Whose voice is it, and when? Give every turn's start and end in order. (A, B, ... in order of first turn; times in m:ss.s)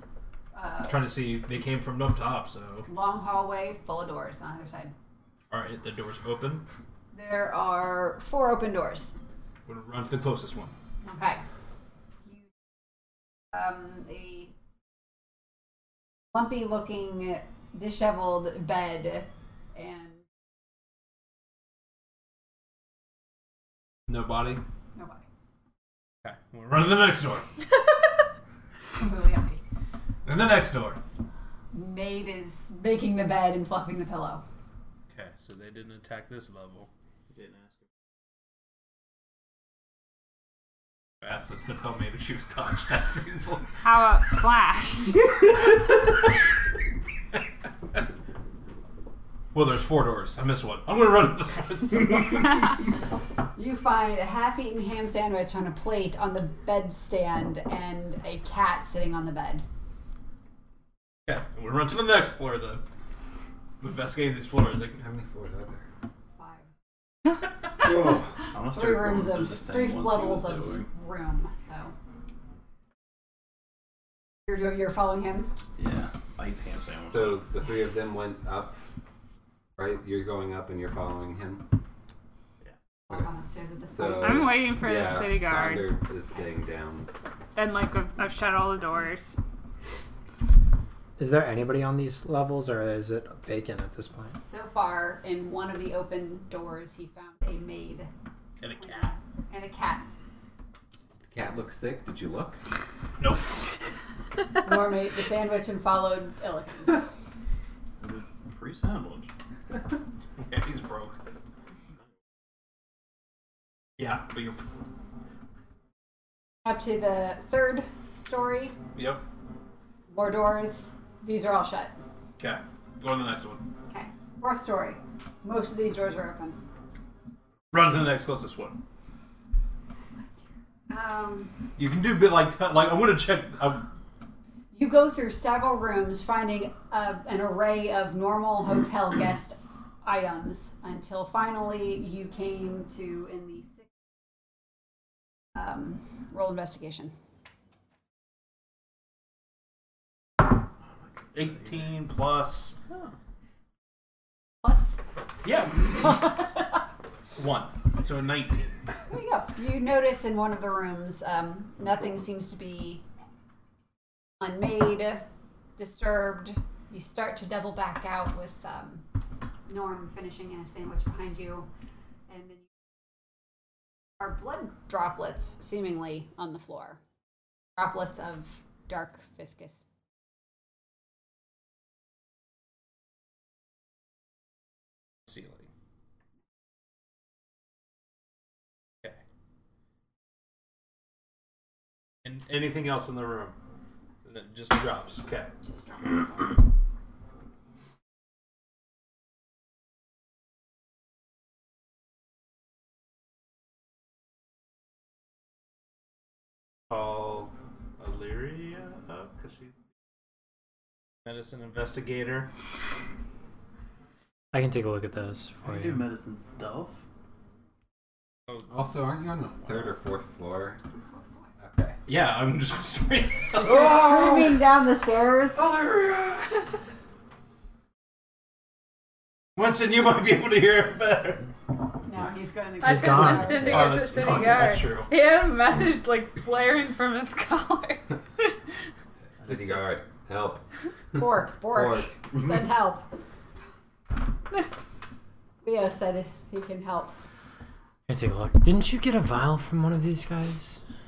0:00.5-0:01.0 A
0:00.8-0:02.9 B
0:02.9-0:04.9 A
0:05.5-0:06.6 B
0:07.1-0:09.1 A
0:09.6-0:10.7 B
0:11.0-0:11.4 A
0:13.5-0:14.5 A
0:16.3-0:20.2 A
0:24.1-0:24.6 B
0:24.9-0:25.2 A
0:26.2-0:27.5 B
0:28.9-0:29.6 A
0:30.2-0:31.0 B
0:31.7-0:34.4 A
0:35.1-0:36.9 B
0:37.3-0:37.7 C
0:41.2-0:43.7 B
0:43.8-0:45.3 D
0:49.5-0:52.6 B
0:53.6-0:59.6 A
1:01.2-1:02.8 B
1:03.8-1:05.0 B
1:05.0-1:05.8 E
1:06.4-1:06.6 A
1:07.9-1:08.2 E
1:08.5-1:10.9 C
1:08.7-1:11.9 A
1:14.5-1:15.5 A
1:15.8-1:17.4 C
1:17.0-1:18.8 E
1:19.8-1:21.6 E
1:23.1-1:24.5 A
1:23.9-1:27.1 E
1:24.2-1:25.9 D
1:27.6-1:29.4 D
1:31.2-1:34.4 F
1:34.4-1:38.1 A
1:38.6-1:39.1 B
1:38.8-1:40.0 A
1:41.3-1:42.6 E
1:43.2-1:43.5 B
1:44.6-1:47.1 A
1:48.0-1:49.3 C
1:50.4-1:51.2 B
1:54.0-1:54.6 B
1:56.6-1:58.8 A
1:58.9-1:59.2 B
2:00.1-2:02.0 A
2:02.4-2:03.6 B
2:03.9-2:06.6 A
2:07.7-2:08.8 B
2:10.9-2:11.6 A
2:11.8-2:13.9 B
2:14.7-2:23.9 A
2:25.5-2:27.1 A
2:31.3-2:32.8 B
2:31.4-2:31.8 C
2:34.6-2:35.0 A
2:35.4-2:36.4 B
2:37.4-2:38.8 B
2:39.1-2:43.0 A
2:44.4-2:45.2 A
2:45.8-2:49.0 A
2:49.7-2:51.7 A
2:52.3-2:52.7 A
2:54.2-2:57.0 A
2:57.8-2:59.8 A
3:05.2-3:05.7 B
3:12.2-3:13.6 B
3:14.2-3:15.5 B
3:26.9-3:29.8 B
3:31.2-3:32.5 B
3:34.5-3:36.0 F
3:35.6-3:37.0 C
3:38.7-3:40.8 E
3:41.6-3:42.0 E
3:42.0-3:44.1 B
3:43.5-3:45.7 A
3:49.6-3:51.5 B
3:52.0-3:53.8 A
3:52.8-3:58.5 D
3:52.8-3:53.7 F
3:53.6-3:55.1 B
3:59.4-4:00.6 E
4:01.1-4:03.1 A
4:01.2-4:02.5 E
4:05.6-4:07.2 A
4:08.1-4:10.8 F